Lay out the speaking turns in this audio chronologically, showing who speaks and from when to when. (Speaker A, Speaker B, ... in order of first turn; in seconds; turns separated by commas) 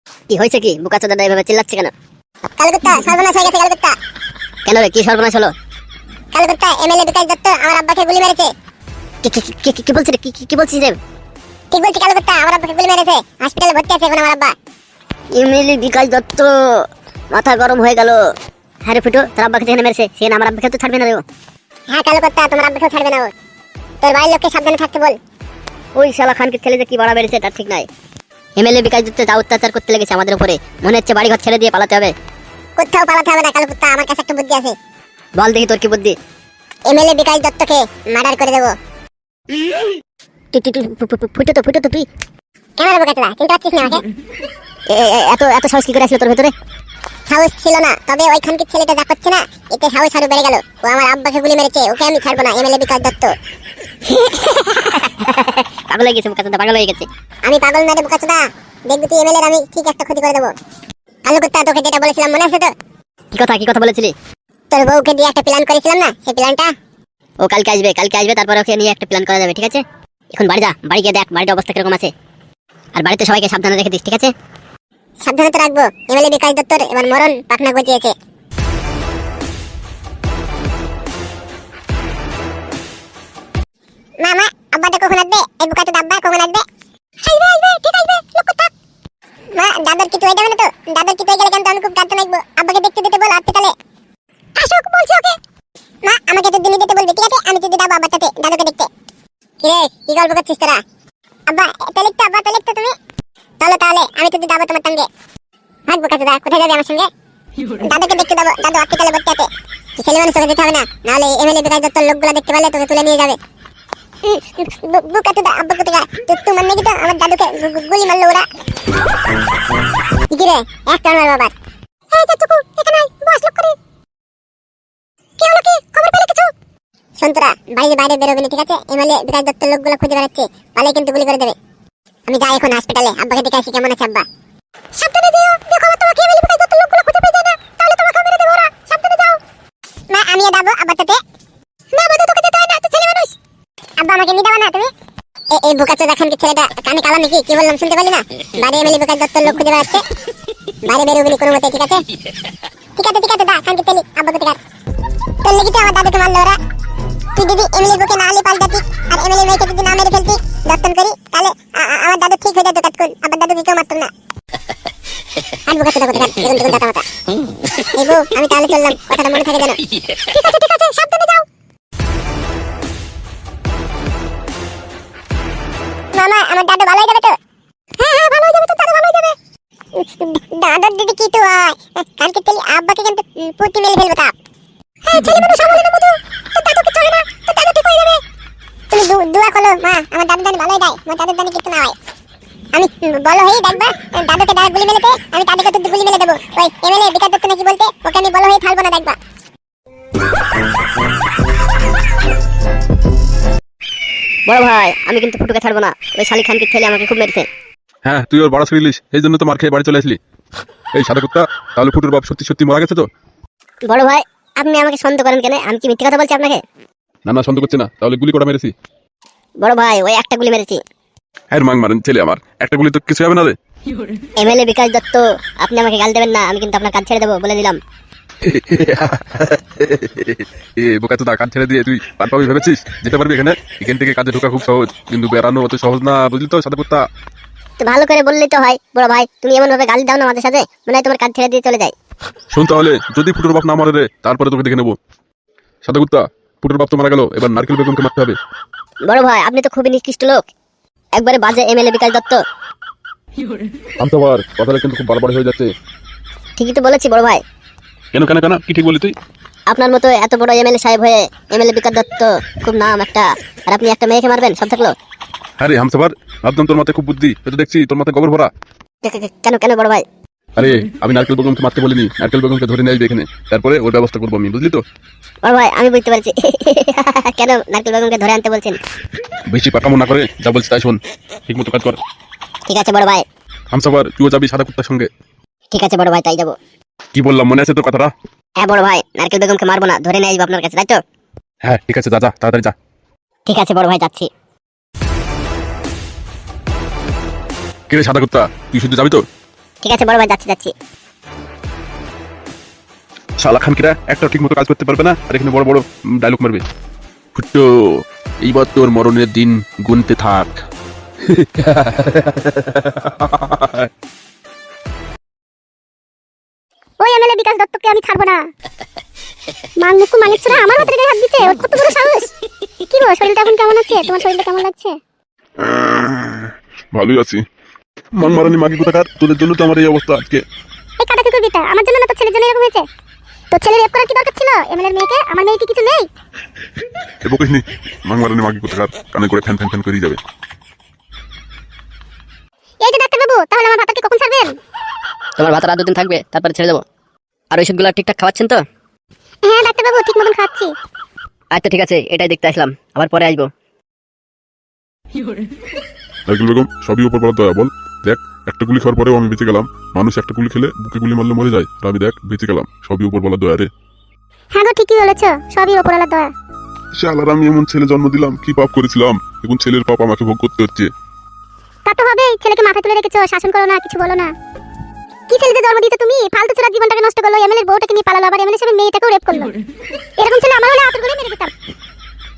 Speaker A: 0.3-1.9, Speaker B: 2.6-4.0, Speaker A: 4.7-5.5, Speaker B: 6.3-8.5, Speaker A: 9.2-11.0, Speaker B: 11.7-14.5, Speaker A: 15.3-18.2, Speaker A: 18.9-21.2, Speaker B: 21.9-23.3, Speaker B: 24.0-25.2, Speaker A: 25.9-27.9, Speaker A: 28.6-32.1, Speaker B: 32.8-34.8, Speaker A: 35.4-36.1, Speaker B: 36.9-38.7, Speaker A: 40.5-42.0, Speaker B: 42.8-44.0, Speaker A: 44.9-46.5, Speaker B: 47.3-53.3, Speaker B: 54.1-55.0, Speaker A: 55.2-57.0, Speaker B: 57.4-60.5, Speaker B: 61.2-62.7, Speaker A: 63.3-64.1, Speaker B: 64.7-66.7, Speaker A: 67.4-72.1, Speaker A: 72.9-74.3, Speaker B: 75.2-78.1, Speaker B: 84.2-86.6, Speaker B: 87.2-88.7, Speaker B: 89.5-93.8, Speaker B: 94.6-95.4, Speaker B: 96.0-98.9, Speaker B: 99.6-100.8, Speaker B: 101.5-102.9, Speaker B: 103.6-105.1, Speaker B: 105.9-107.1, Speaker B: 107.8-113.4, Speaker B: 114.2-118.5, Speaker B: 120.3-121.5, Speaker B: 122.1-123.8, Speaker B: 125.4-126.5, Speaker B: 127.2-131.6, Speaker B: 132.3-134.2, Speaker B: 134.9-139.4, Speaker B: 140.1-141.2, Speaker B: 141.9-143.3, Speaker B: 144.0-144.9, Speaker B: 145.5-150.1, Speaker B: 150.8-152.0, Speaker B: 152.9-154.6, Speaker B: 155.4-156.6, Speaker B: 157.3-164.1, Speaker B: 165.6-167.0, Speaker B: 167.7-171.4, Speaker B: 176.1-177.4, Speaker B: 178.0-179.3, Speaker B: 179.9-184.3, Speaker B: 185.0-188.2, Speaker B: 188.9-191.9, Speaker B: 192.7-199.2, Speaker A: 204.5-207.5, Speaker C: 208.0-210.2, Speaker C: 210.9-213.1, Speaker A: 213.9-216.6, Speaker C: 217.2-218.7, Speaker A: 219.6-220.8, Speaker C: 221.5-223.5, Speaker A: 224.4-227.8, Speaker C: 228.4-237.0, Speaker A: 237.8-241.9, Speaker C: 242.5-245.0, Speaker C: 245.8-248.4, Speaker A: 249.1-250.4, Speaker A: 251.2-252.4, Speaker C: 254.0-255.7, Speaker A: 256.6-257.4, Speaker C: 258.1-259.1, Speaker A: 259.7-264.9, Speaker C: 265.6-268.5, Speaker A: 269.0-270.0, Speaker C: 270.6-274.8, Speaker A: 275.4-278.8, Speaker C: 279.5-282.0, Speaker A: 282.7-283.2, Speaker C: 283.7-285.1, Speaker A: 285.7-286.6, Speaker C: 287.1-288.1, Speaker A: 288.6-291.0, Speaker C: 291.6-292.7, Speaker A: 293.5-294.3, Speaker C: 297.9-299.2, Speaker A: 299.8-300.7, Speaker C: 303.4-306.6, Speaker C: 307.3-310.6, Speaker C: 311.2-313.9, Speaker D: 317.0-318.4, Speaker D: 319.8-322.3, Speaker D: 322.8-324.9, Speaker C: 325.6-327.4, Speaker C: 328.1-330.4, Speaker D: 331.0-332.8, Speaker D: 333.5-336.0, Speaker C: 337.2-340.2, Speaker D: 342.8-344.5, Speaker A: 345.4-346.8, Speaker A: 347.5-348.6, Speaker D: 349.4-350.7, Speaker A: 351.5-353.5, Speaker C: 356.3-363.7, Speaker D: 364.5-366.3, Speaker C: 367.0-370.9, Speaker D: 371.9-374.3, Speaker D: 375.3-379.5, Speaker D: 380.2-381.5